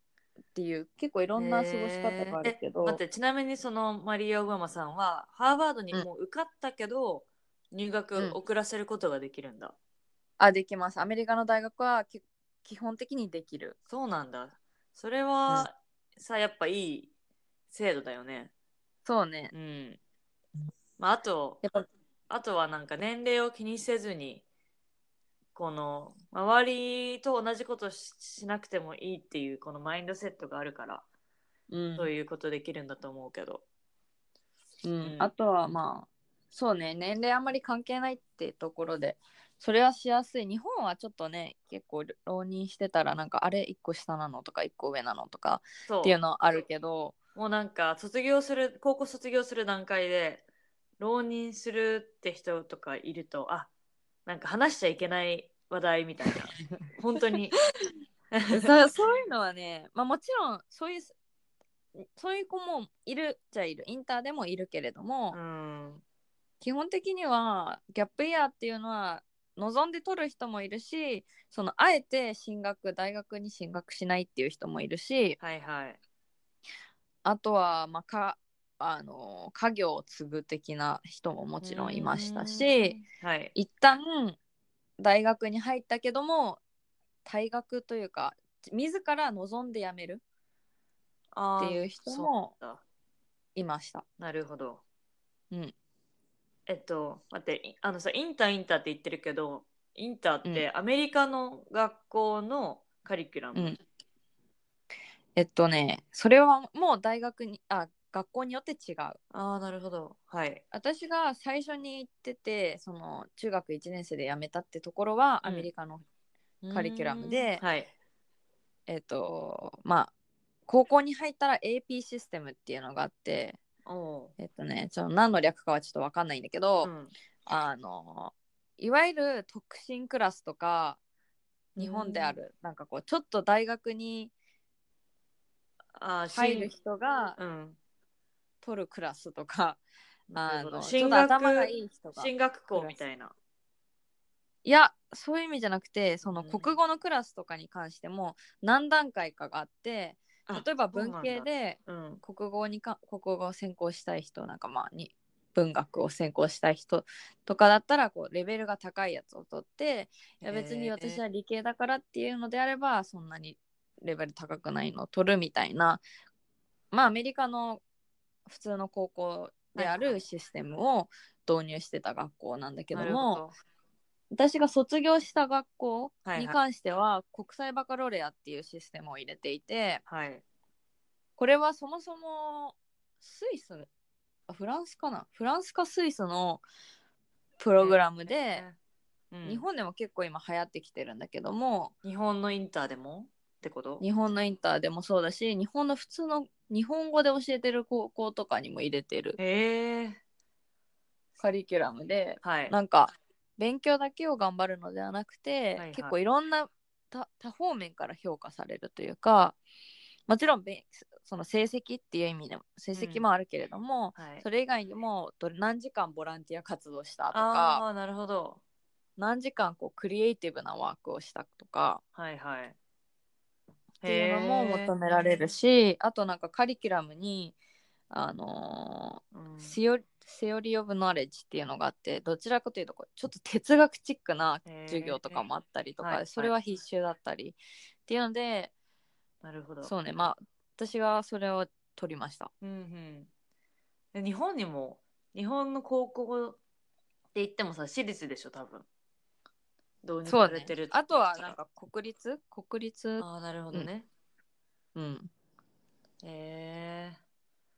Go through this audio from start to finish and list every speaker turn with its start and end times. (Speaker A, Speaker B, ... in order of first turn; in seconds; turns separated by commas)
Speaker A: 0.6-3.0, Speaker B: 1.4-9.8, Speaker A: 10.4-13.8, Speaker B: 13.9-17.1, Speaker B: 17.7-18.5, Speaker A: 19.1-19.5, Speaker B: 19.5-20.0, Speaker B: 21.0-21.6, Speaker B: 22.3-24.4, Speaker B: 25.6-31.0, Speaker A: 31.7-32.1, Speaker B: 32.0-33.6, Speaker A: 34.8-47.1, Speaker B: 35.0-35.3, Speaker B: 45.9-46.2, Speaker B: 47.4-50.4, Speaker B: 51.0-53.7, Speaker B: 54.3-57.6, Speaker B: 58.3-58.7, Speaker A: 58.5-61.1, Speaker A: 62.1-65.4, Speaker B: 65.3-66.0, Speaker A: 66.6-75.4, Speaker B: 75.4-76.0, Speaker A: 77.2-83.0, Speaker B: 81.6-83.5, Speaker A: 83.5-84.4, Speaker A: 85.0-86.6, Speaker A: 87.2-90.2, Speaker B: 91.3-92.8, Speaker A: 91.6-92.5, Speaker A: 93.5-94.0, Speaker B: 94.2-94.8, Speaker B: 96.7-103.8, Speaker A: 105.4-109.2, Speaker B: 109.3-110.6, Speaker A: 110.7-116.0, Speaker B: 115.4-115.7, Speaker B: 116.6-117.9, Speaker A: 116.7-117.6, Speaker A: 118.9-120.1, Speaker A: 120.7-123.6, Speaker B: 123.9-124.3, Speaker A: 124.4-126.9, Speaker B: 126.8-127.1, Speaker A: 127.5-131.0, Speaker B: 131.8-132.4, Speaker A: 131.8-134.3, Speaker B: 135.9-136.7, Speaker A: 136.3-137.4, Speaker B: 137.4-137.8, Speaker A: 138.6-139.8, Speaker B: 140.3-143.3, Speaker A: 140.3-143.0, Speaker A: 144.7-166.0, Speaker B: 146.3-146.7, Speaker B: 150.5-152.2, Speaker B: 160.4-161.2, Speaker A: 166.9-167.8, Speaker A: 168.5-173.4, Speaker B: 169.8-170.2, Speaker B: 172.9-173.6, Speaker A: 174.3-180.0, Speaker B: 176.2-176.6, Speaker B: 180.1-180.4, Speaker A: 181.4-183.9, Speaker A: 184.5-186.6, Speaker A: 187.6-188.6, Speaker B: 187.8-188.8, Speaker B: 189.3-189.6, Speaker A: 189.4-191.9, Speaker B: 192.0-194.0, Speaker A: 194.0-199.4, Speaker B: 199.4-200.2, Speaker A: 201.4-209.6, Speaker B: 202.4-202.7, Speaker B: 205.8-206.1, Speaker A: 210.3-217.8, Speaker B: 212.9-213.2, Speaker B: 214.2-214.4, Speaker B: 217.3-218.6, Speaker A: 219.2-222.0, Speaker B: 222.2-222.8, Speaker B: 224.0-224.9, Speaker A: 224.1-227.6, Speaker A: 228.1-238.7, Speaker B: 229.3-229.8, Speaker B: 234.7-235.5, Speaker B: 236.0-236.5, Speaker B: 239.4-239.9, Speaker A: 239.8-242.5, Speaker B: 242.6-243.3, Speaker B: 244.1-246.6, Speaker B: 247.3-248.9, Speaker B: 250.0-251.5, Speaker A: 250.3-253.9, Speaker B: 253.2-254.1, Speaker A: 254.9-255.3, Speaker B: 256.2-257.2